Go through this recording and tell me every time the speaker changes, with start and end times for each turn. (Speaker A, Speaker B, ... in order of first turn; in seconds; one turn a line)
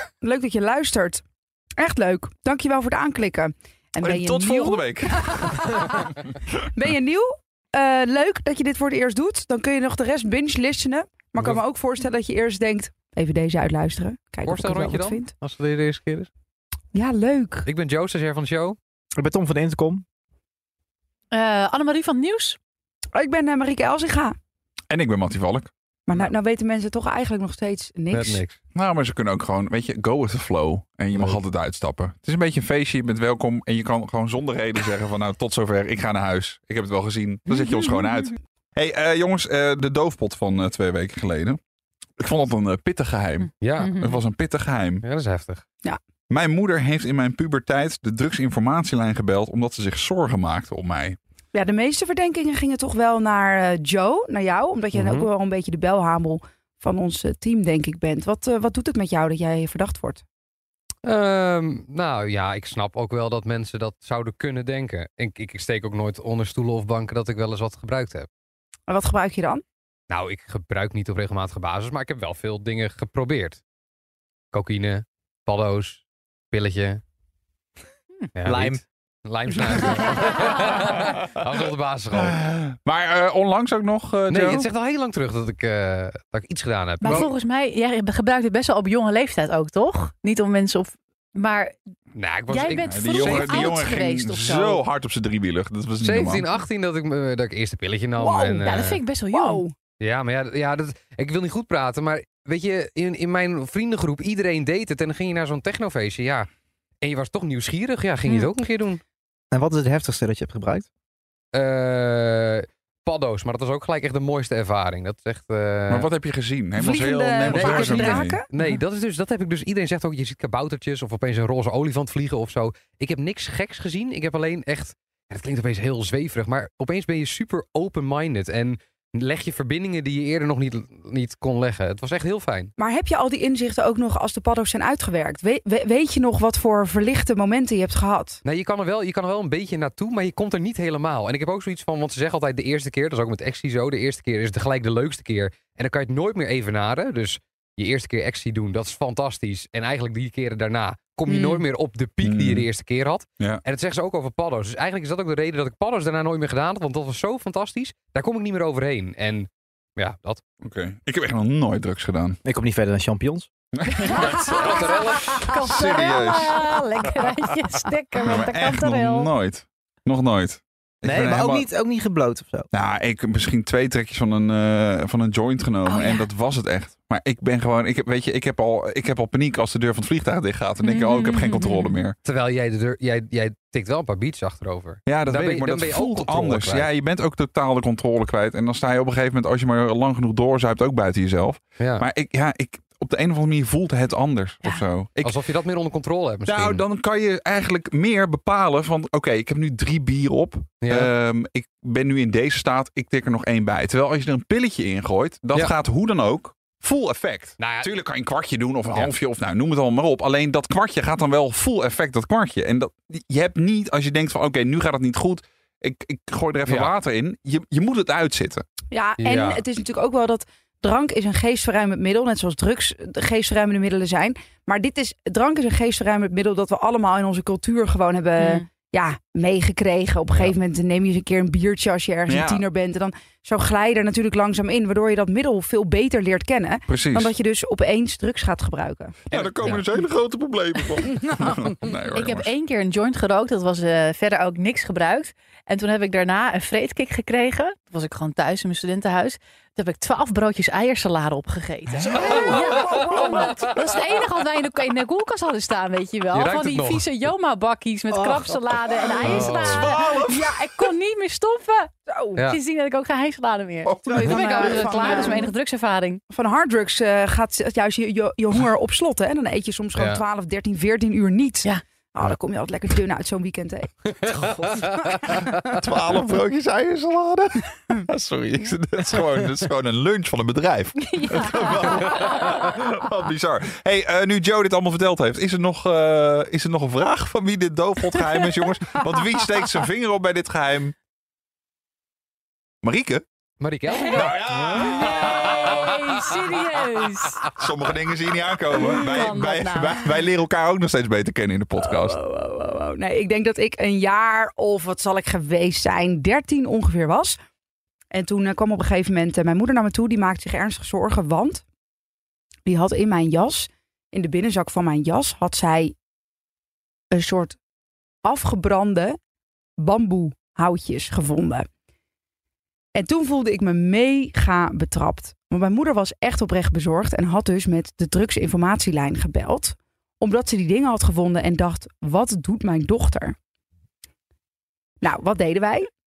Speaker A: 0.2-1.2
Speaker A: 1.8-6.1
Speaker B: 4.0-5.6
Speaker A: 6.6-15.3
Speaker C: 14.4-16.3
Speaker A: 16.9-17.7
Speaker C: 17.7-18.8
Speaker D: 19.2-20.1
Speaker E: 21.3-22.6
Speaker A: 23.1-24.4
Speaker B: 24.9-25.7
Speaker A: 26.1-28.4
Speaker C: 28.1-28.6
Speaker B: 28.7-41.6
Speaker E: 37.6-38.0
Speaker B: 42.2-45.0
Speaker C: 43.6-44.0
Speaker E: 43.8-44.2
Speaker C: 45.0-45.6
Speaker B: 46.3-51.2
Speaker A: 51.5-60.2
Speaker C: 54.9-55.3
Speaker C: 61.0-68.3
Speaker A: 68.9-69.6
Speaker C: 70.1-73.6
Speaker C: 74.5-77.0
Speaker C: 78.3-82.4
Speaker D: 78.5-78.8
Speaker B: 82.1-84.7
Speaker C: 84.3-87.3
Speaker E: 87.0-91.8
Speaker C: 92.1-93.8
Speaker E: 92.5-94.8
Speaker B: 92.9-96.5
Speaker C: 96.0-99.0
Speaker A: 98.2-98.6
Speaker E: 98.6-99.7
Speaker A: 99.3-99.7
Speaker C: 100.0-106.5
Speaker C: 107.0-109.0
Speaker D: 109.5-110.9
Speaker C: 111.5-116.1
Speaker B: 115.9-118.4
Speaker A: 116.8-118.5
Speaker C: 117.5-132.7
Speaker A: 132.8-138.4
Speaker C: 138.4-160.4
Speaker A: 151.3-151.7
Speaker B: 152.2-152.7
Speaker B: 160.6-162.4
Speaker D: 162.4-163.5
Speaker B: 163.7-166.6
Speaker A: 164.2-164.6
Speaker E: 164.2-169.3
Speaker C: 164.6-165.3
Speaker A: 165.8-166.3
Speaker B: 168.2-171.7
Speaker D: 171.0-172.7
Speaker B: 172.7-182.2
Speaker E: 175.9-176.3
Speaker E: 180.8-182.0
Speaker C: 182.2-186.9
Speaker B: 185.1-195.3
Speaker C: 191.8-192.1
Speaker C: 195.2-196.8
Speaker B: 196.5-218.6
Speaker C: 200.8-201.1
Speaker C: 207.6-207.9
Speaker C: 216.7-216.9
Speaker A: 218.9-239.2
Speaker C: 219.2-219.6
Speaker E: 228.4-228.7
Speaker B: 232.3-232.7
Speaker B: 236.9-237.3
Speaker C: 239.3-239.9
Speaker B: 239.3-242.5
Speaker A: 241.0-241.5
Speaker E: 242.1-261.9
Speaker A: 252.2-253.6
Speaker C: 256.3-257.1
Speaker D: 258.1-258.6
Speaker C: 259.2-259.9
Speaker B: 259.3-260.4
Speaker A: 262.1-262.4
Speaker E: 262.4-266.2
Speaker A: 264.0-265.5
Speaker D: 264.1-264.4
Speaker A: 266.3-274.2
Speaker C: 270.0-270.2
Speaker A: 274.7-275.4
Speaker B: 275.5-290.9
Speaker E: 281.0-282.5
Speaker E: 288.2-288.7
Speaker B: 292.8-293.2
Speaker C: 293.6-294.4
Speaker E: 293.9-297.5
Speaker B: 294.1-296.0
Speaker B: 297.4-302.2
Speaker E: 298.7-300.2
Speaker A: 301.8-307.4
Speaker A: 308.1-311.6
Speaker A: 312.7-315.9
Speaker A: 317.1-317.6
Speaker A: 318.2-319.2
Speaker A: 319.8-321.7
Speaker A: 322.9-333.4
Speaker A: 335.0-335.9